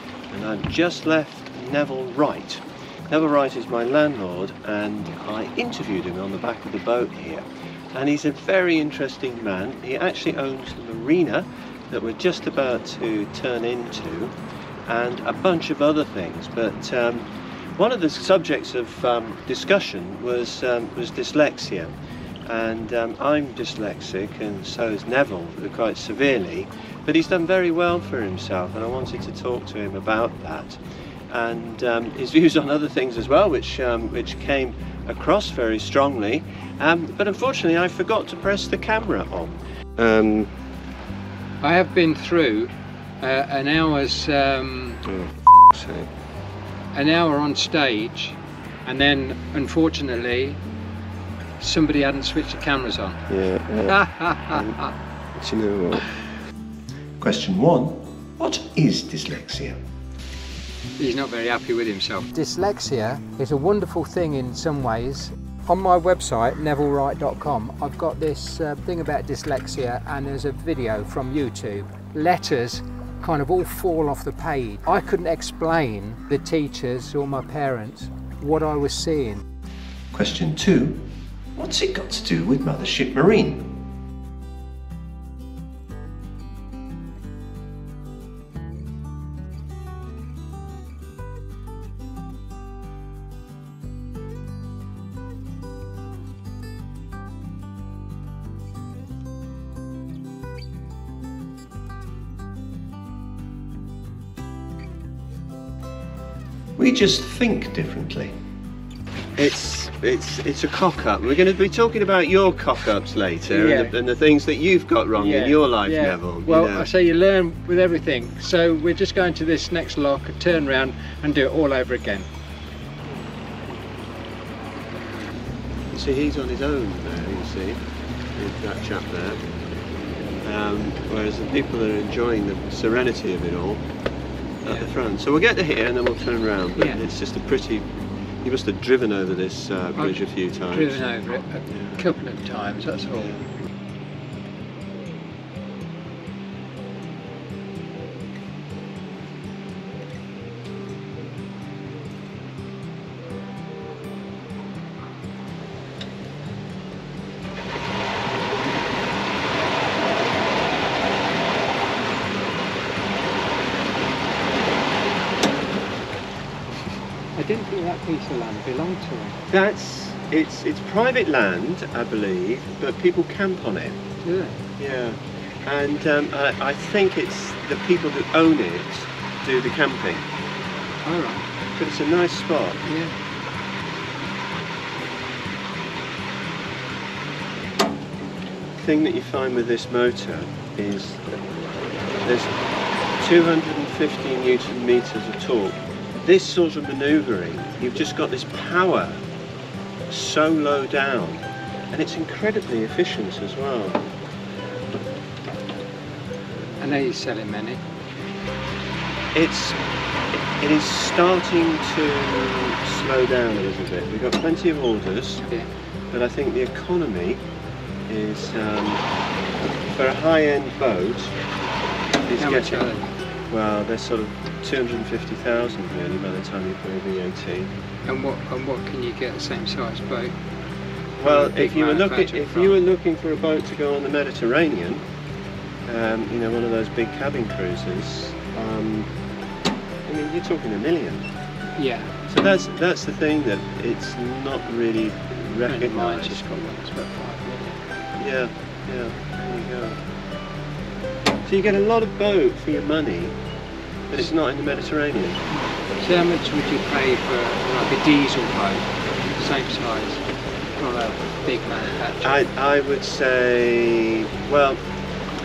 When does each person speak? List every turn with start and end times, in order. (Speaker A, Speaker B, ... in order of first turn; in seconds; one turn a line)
Speaker A: 0.3-14.3
Speaker A: 14.9-21.9
Speaker A: 22.4-40.5
Speaker B: 41.6-45.0
Speaker A: 45.0-46.1
Speaker B: 47.0-50.6
Speaker B: 51.6-53.2
Speaker A: 53.3-54.8
Speaker B: 53.9-54.9
Speaker A: 55.4-56.1
Speaker A: 57.2-59.8
Speaker B: 61.0-79.4
Speaker A: 80.1-81.0
Speaker A: 81.5-83.7
Speaker A: 106.8-108.3
Speaker A: 109.4-116.9
Speaker B: 113.5-113.9
Speaker B: 115.2-122.3
Speaker A: 125.9-127.8
Speaker A: 128.3-129.4
Speaker A: 130.4-133.8
Speaker A: 134.6-141.0
Speaker B: 136.8-137.0
Speaker B: 140.0-143.3
Speaker A: 141.7-142.0
Speaker A: 143.2-143.4
Speaker B: 167.4-169.4
Speaker A: 169.5-174.0
Speaker B: 174.2-174.6
Speaker A: 174.8-180.2
Speaker B: 181.0-181.4
Speaker A: 181.7-182.8
Speaker B: 182.9-183.1
Speaker A: 188.7-191.4
Speaker A: 192.2-192.6
Speaker A: 193.2-199.2
Speaker A: 200.1-204.1
Speaker B: 206.8-207.8
Speaker A: 209.3-209.8
Speaker A: 210.6-215.4
Speaker B: 215.4-215.7
Speaker A: 216.1-217.4
Speaker A: 218.1-219.0
Speaker A: 219.8-221.4
Speaker A: 222.3-222.9
Speaker B: 222.4-223.1
Speaker A: 223.5-227.7
Speaker B: 228.1-230.4
Speaker A: 231.2-235.1
Speaker B: 231.2-232.8
Speaker A: 235.9-239.1
Speaker A: 240.1-241.3
Speaker B: 241.8-242.2
Speaker A: 242.3-246.4
Speaker B: 245.7-247.8
Speaker A: 248.2-250.0
Speaker A: 251.4-253.4
Speaker A: 254.1-255.4
Speaker B: 255.5-260.2
Speaker B: 260.8-262.4
Speaker A: 262.2-264.8